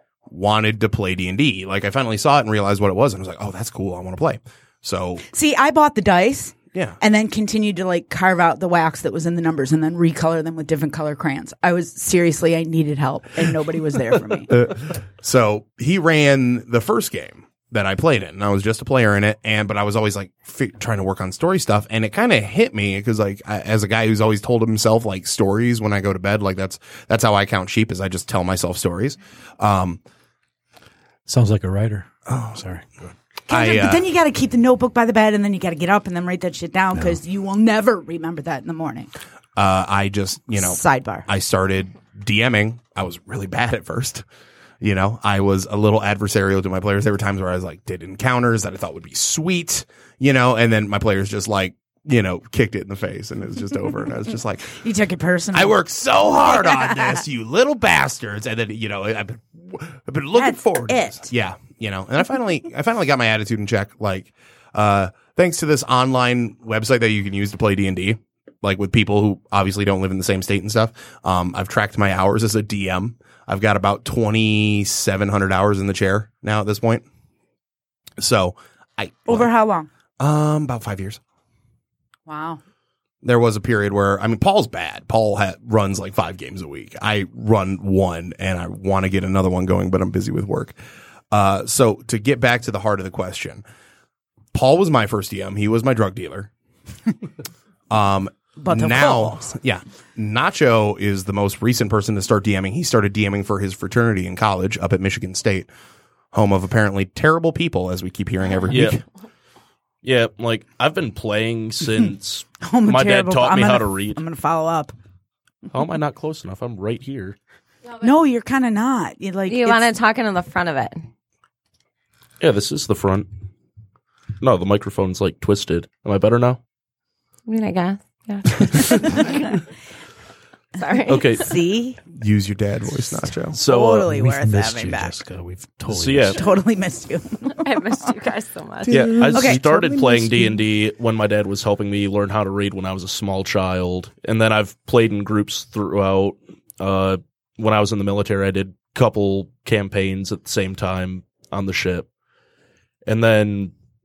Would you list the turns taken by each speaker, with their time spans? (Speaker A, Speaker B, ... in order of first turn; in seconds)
Speaker A: 0.3-5.2, 6.7-7.0, 14.5-30.0, 32.3-32.6, 33.5-34.0, 39.6-44.2, 44.8-54.8, 55.5-77.0, 78.2-79.5, 80.2-81.2, 83.2-90.8, 91.3-93.6, 94.5-96.5, 97.9-105.7, 106.3-109.0, 132.2-133.6, 138.9-140.6
Speaker B: 5.3-14.6, 33.5-39.1, 40.6-41.3, 54.8-55.8, 56.4-57.2, 60.4-61.3, 79.3-79.9, 82.3-82.6, 98.6-99.5, 112.6-114.9, 118.0-119.9, 131.3-132.0, 133.6-135.2, 136.4-137.8, 139.0-139.6
Speaker C: 31.3-33.1, 134.1-136.4
Speaker D: 108.7-109.0, 110.0-114.2, 115.7-117.4, 122.4-123.3, 124.4-126.6, 131.1-131.5, 133.5-134.1, 135.9-136.4, 138.9-152.1, 153.1-153.7
Speaker E: 119.5-121.0, 127.5-129.5, 130.8-131.5, 137.5-139.2